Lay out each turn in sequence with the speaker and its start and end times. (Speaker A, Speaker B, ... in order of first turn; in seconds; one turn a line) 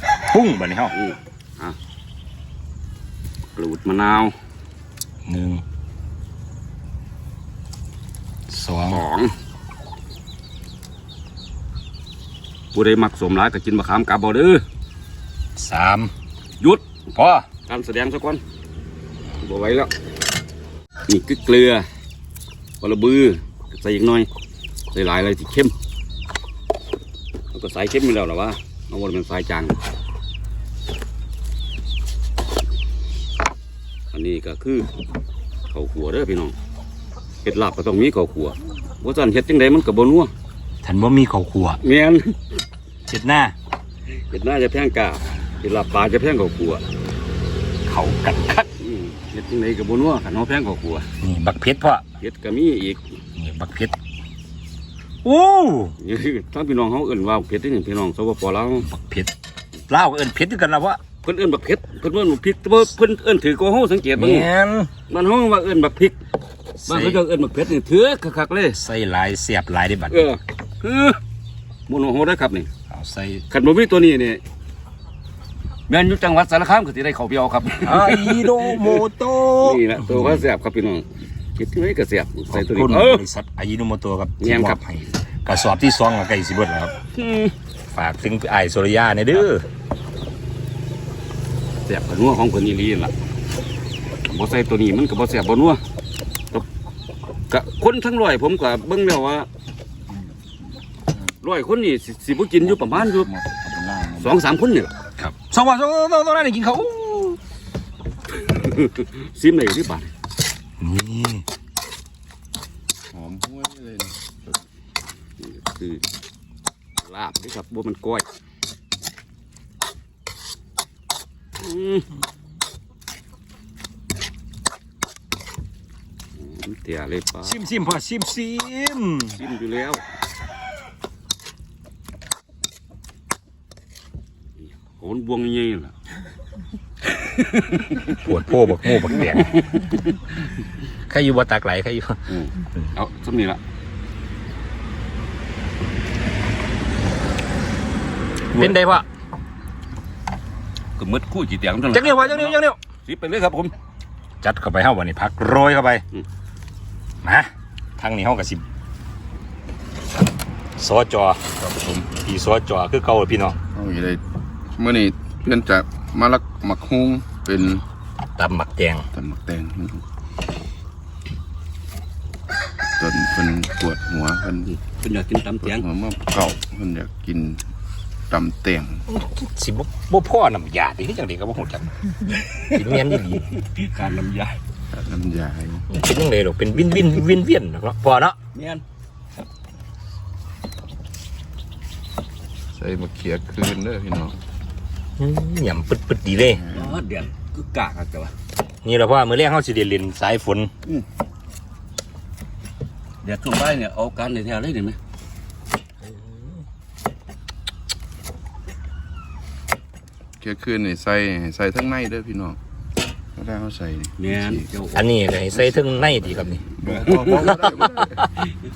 Speaker A: 0.3-0.9
Speaker B: 0.9-1.8
Speaker B: 3.6-4.4
Speaker A: 5.3-5.6
Speaker A: 8.5-9.0
Speaker B: 8.9-9.3
Speaker B: 12.7-14.6
Speaker A: 15.6-16.1
Speaker B: 16.6-16.9
Speaker A: 17.1-17.5
Speaker B: 17.7-18.4
Speaker B: 19.4-19.9
Speaker B: 21.1-21.9
Speaker B: 22.8-24.3
Speaker B: 24.9-25.8
Speaker B: 27.5-29.8
Speaker B: 34.1-34.9
Speaker B: 35.7-36.6
Speaker B: 37.4-40.3
Speaker A: 40.8-41.8
Speaker B: 41.8-42.4
Speaker A: 43.1-43.5
Speaker B: 44.2-46.9
Speaker A: 47.9-48.7
Speaker B: 48.8-51.1
Speaker A: 51.2-52.0
Speaker B: 52.2-53.1
Speaker A: 53.4-53.9
Speaker A: 55.2-56.0
Speaker B: 56.0-58.9
Speaker A: 58.8-59.3
Speaker A: 59.9-61.0
Speaker B: 61.2-64.5
Speaker A: 64.2-64.9
Speaker B: 65.1-66.2
Speaker B: 66.8-68.8
Speaker A: 66.9-67.2
Speaker A: 68.8-70.3
Speaker B: 70.1-71.2
Speaker B: 71.9-72.7
Speaker A: 72.9-73.5
Speaker B: 73.5-74.4
Speaker B: 75.9-79.0
Speaker A: 77.8-80.5
Speaker B: 79.5-83.2
Speaker A: 82.5-87.0
Speaker B: 84.4-84.8
Speaker B: 87.2-87.5
Speaker A: 87.9-89.7
Speaker B: 91.9-93.1
Speaker B: 94.3-95.8
Speaker B: 97.5-99.5
Speaker B: 101.4-103.3
Speaker C: 102.6-104.4
Speaker B: 104.2-104.9
Speaker A: 105.2-107.4
Speaker B: 108.3-110.1
Speaker A: 110.8-111.4
Speaker C: 113.1-114.6
Speaker B: 115.4-116.0
Speaker B: 117.0-118.3
Speaker B: 121.6-122.1
Speaker B: 126.4-127.6
Speaker A: 127.4-129.4
Speaker B: 129.3-130.0
Speaker B: 134.6-135.9
Speaker B: 137.1-138.2
Speaker A: 138.1-139.7
Speaker B: 139.1-140.1
Speaker A: 141.1-142.2
Speaker B: 142.3-143.6
Speaker A: 148.5-149.1
Speaker B: 151.0-153.7
Speaker A: 151.9-152.8
Speaker A: 154.4-156.0
Speaker A: 157.2-158.6
Speaker A: 160.8-161.5
Speaker C: 161.6-162.1
Speaker A: 162.1-163.6
Speaker C: 163.7-164.2
Speaker C: 164.8-167.8
Speaker A: 168.4-169.1
Speaker C: 169.1-170.0
Speaker C: 173.0-174.7
Speaker B: 174.7-175.8
Speaker C: 175.6-177.6
Speaker C: 178.3-179.1
Speaker A: 179.1-183.5
Speaker B: 182.6-184.6
Speaker C: 184.9-185.9
Speaker A: 185.9-188.4
Speaker B: 188.5-188.8
Speaker C: 192.8-194.4
Speaker A: 195.2-196.6
Speaker C: 196.4-197.0
Speaker B: 196.7-198.3
Speaker A: 198.8-200.7
Speaker B: 203.2-205.0
Speaker A: 206.1-206.4
Speaker C: 210.4-212.6
Speaker C: 213.4-214.7
Speaker B: 214.2-215.0
Speaker A: 214.9-216.6
Speaker C: 215.6-218.3
Speaker B: 216.9-217.5
Speaker A: 217.3-218.3